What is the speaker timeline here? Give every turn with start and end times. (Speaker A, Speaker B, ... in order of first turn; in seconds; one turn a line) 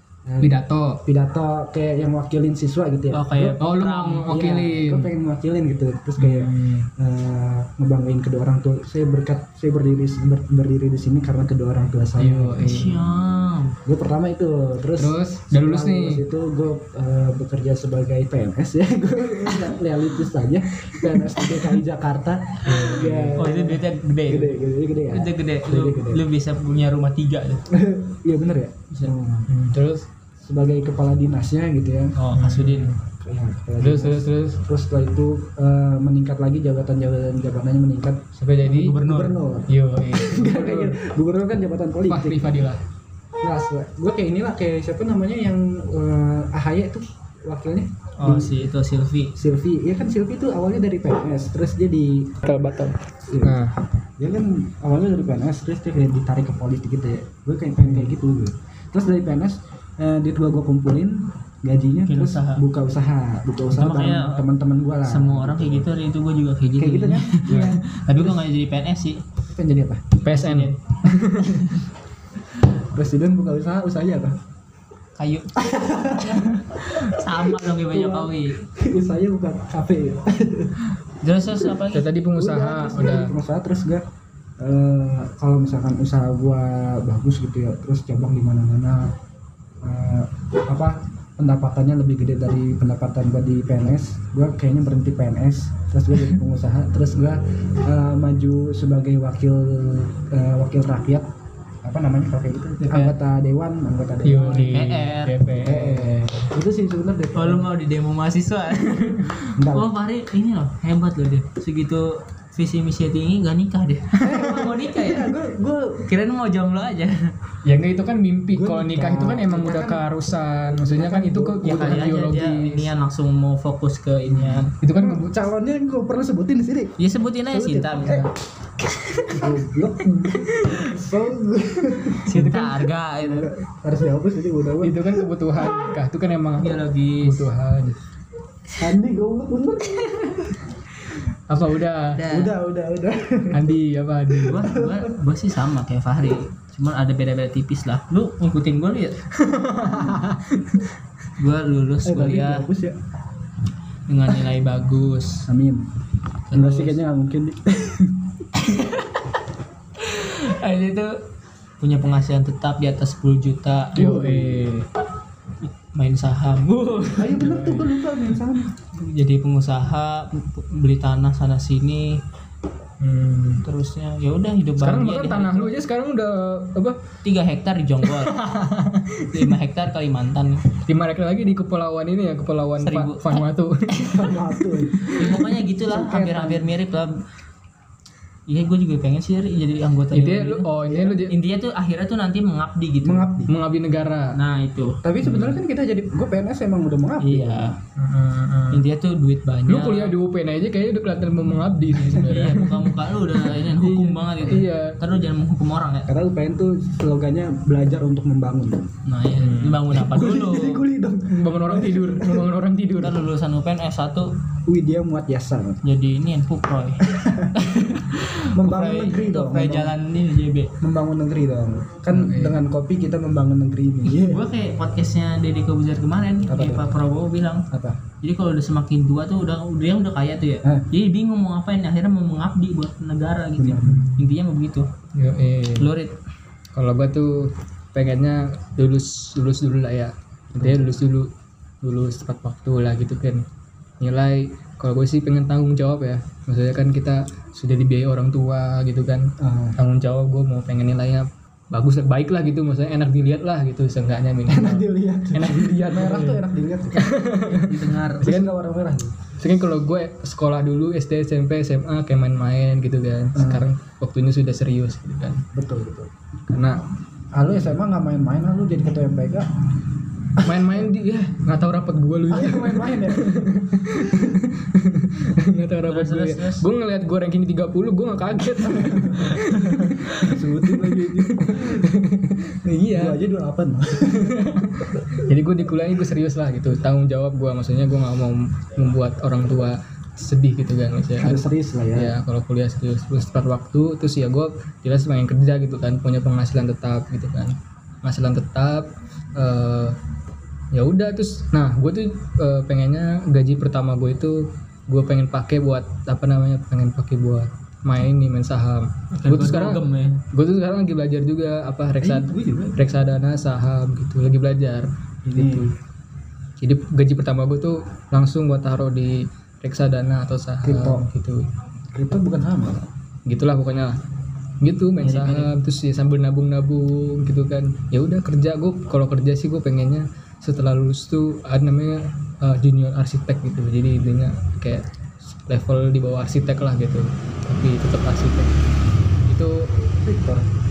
Speaker A: 0.2-3.6
Speaker B: 0.4-1.0
Speaker C: 3.1-4.4
Speaker B: 3.6-5.1
Speaker A: 4.3-12.8
Speaker B: 6.2-6.9
Speaker B: 12.2-13.1
Speaker C: 12.6-13.8
Speaker A: 13.8-26.2
Speaker B: 15.0-16.2
Speaker B: 22.6-23.4
Speaker C: 23.4-24.6
Speaker C: 25.1-27.6
Speaker A: 27.7-29.5
Speaker B: 29.5-30.0
Speaker A: 30.4-32.2
Speaker C: 32.1-32.9
Speaker B: 32.3-33.0
Speaker A: 33.1-38.2
Speaker B: 33.8-34.6
Speaker B: 38.4-39.0
Speaker C: 38.6-39.4
Speaker A: 38.8-42.4
Speaker B: 39.7-41.0
Speaker B: 42.1-42.8
Speaker A: 43.4-48.7
Speaker C: 48.2-49.4
Speaker A: 49.4-52.4
Speaker B: 52.4-53.7
Speaker A: 53.3-53.6
Speaker A: 54.2-65.9
Speaker C: 62.0-62.6
Speaker C: 63.7-64.5
Speaker C: 65.0-69.2
Speaker A: 66.8-68.4
Speaker B: 67.5-67.8
Speaker A: 69.5-70.1
Speaker B: 70.2-71.8
Speaker C: 70.3-70.8
Speaker A: 72.7-74.4
Speaker C: 75.2-78.6
Speaker A: 75.5-80.8
Speaker C: 81.2-82.2
Speaker B: 81.9-83.3
Speaker A: 82.3-84.0
Speaker A: 84.6-89.1
Speaker A: 89.8-101.3
Speaker A: 101.8-104.9
Speaker B: 104.2-106.3
Speaker C: 104.7-105.4
Speaker A: 105.5-107.7
Speaker C: 107.3-115.3
Speaker A: 109.5-109.9
Speaker A: 114.2-116.0
Speaker B: 114.2-114.5
Speaker C: 116.0-117.3
Speaker B: 117.6-122.9
Speaker A: 118.5-122.0
Speaker C: 121.6-124.7
Speaker B: 124.8-125.3
Speaker A: 124.9-126.9
Speaker C: 127.0-128.2
Speaker A: 127.5-128.3
Speaker B: 128.0-128.3
Speaker A: 129.3-132.3
Speaker B: 130.3-130.9
Speaker C: 132.2-133.5
Speaker B: 132.3-132.8
Speaker A: 133.2-135.3
Speaker B: 134.8-138.0
Speaker C: 136.6-137.5
Speaker A: 138.8-140.6
Speaker B: 141.5-142.2
Speaker C: 142.1-142.5
Speaker A: 142.3-143.6
Speaker B: 143.5-144.7
Speaker C: 144.4-149.2
Speaker A: 144.6-145.1
Speaker B: 149.4-150.9
Speaker C: 151.4-152.7
Speaker A: 152.0-153.0
Speaker C: 154.1-155.5
Speaker A: 155.5-155.8
Speaker C: 156.5-157.0
Speaker A: 156.5-158.4
Speaker C: 158.5-159.2
Speaker C: 160.0-161.2
Speaker C: 161.8-164.1
Speaker A: 163.9-164.7
Speaker B: 163.9-164.8
Speaker C: 165.6-167.5
Speaker A: 167.1-168.7
Speaker B: 167.4-168.0
Speaker C: 168.9-172.2
Speaker B: 173.0-173.6
Speaker C: 173.6-175.7
Speaker B: 174.8-177.0
Speaker C: 177.2-178.3
Speaker B: 178.0-179.5
Speaker C: 179.3-180.6
Speaker B: 180.7-185.4
Speaker C: 182.8-183.4
Speaker A: 184.0-186.7
Speaker C: 185.1-187.2
Speaker C: 188.5-190.7
Speaker B: 190.1-191.3
Speaker A: 190.8-191.2
Speaker C: 191.2-193.3
Speaker A: 193.0-193.5
Speaker B: 193.5-194.3
Speaker C: 194.3-195.0
Speaker A: 195.0-197.8
Speaker B: 195.2-195.6
Speaker C: 197.2-197.7
Speaker B: 198.0-198.8
Speaker C: 198.7-200.2
Speaker B: 199.7-205.0
Speaker C: 202.0-206.1
Speaker A: 206.1-208.9
Speaker C: 209.1-210.8
Speaker B: 209.4-209.9
Speaker A: 209.9-212.4
Speaker B: 211.3-213.2
Speaker C: 213.0-214.3
Speaker A: 214.7-215.8
Speaker C: 215.8-220.7
Speaker A: 217.0-217.5
Speaker A: 218.5-220.0
Speaker A: 220.8-224.4
Speaker B: 222.1-222.6
Speaker C: 224.0-227.7
Speaker A: 226.5-226.9
Speaker A: 227.7-228.0
Speaker C: 228.2-234.9
Speaker A: 233.6-234.1
Speaker B: 233.8-234.3
Speaker B: 235.1-235.9
Speaker C: 235.8-236.1
Speaker B: 236.7-241.3
Speaker A: 240.6-240.9
Speaker B: 241.8-243.4
Speaker B: 244.0-258.5
Speaker A: 249.4-249.8
Speaker A: 254.5-257.3
Speaker C: 257.5-258.4
Speaker A: 258.2-259.3
Speaker B: 259.4-265.4
Speaker A: 263.3-263.7
Speaker A: 265.5-266.1
Speaker B: 266.5-266.8
Speaker A: 267.3-269.5
Speaker A: 270.4-270.9
Speaker B: 270.4-283.2
Speaker A: 272.3-274.4
Speaker C: 275.9-276.7
Speaker A: 278.7-281.9
Speaker A: 282.9-285.2
Speaker B: 284.0-291.4
Speaker A: 291.2-292.1
Speaker B: 291.9-300.0
Speaker B: 300.7-315.7
Speaker C: 309.1-310.2
Speaker A: 312.0-312.9
Speaker A: 315.3-315.7
Speaker B: 316.6-321.5
Speaker A: 320.6-321.1
Speaker A: 321.9-322.9
Speaker B: 323.2-324.0
Speaker B: 324.6-338.6
Speaker C: 325.0-325.5
Speaker B: 339.3-339.7
Speaker A: 340.0-340.4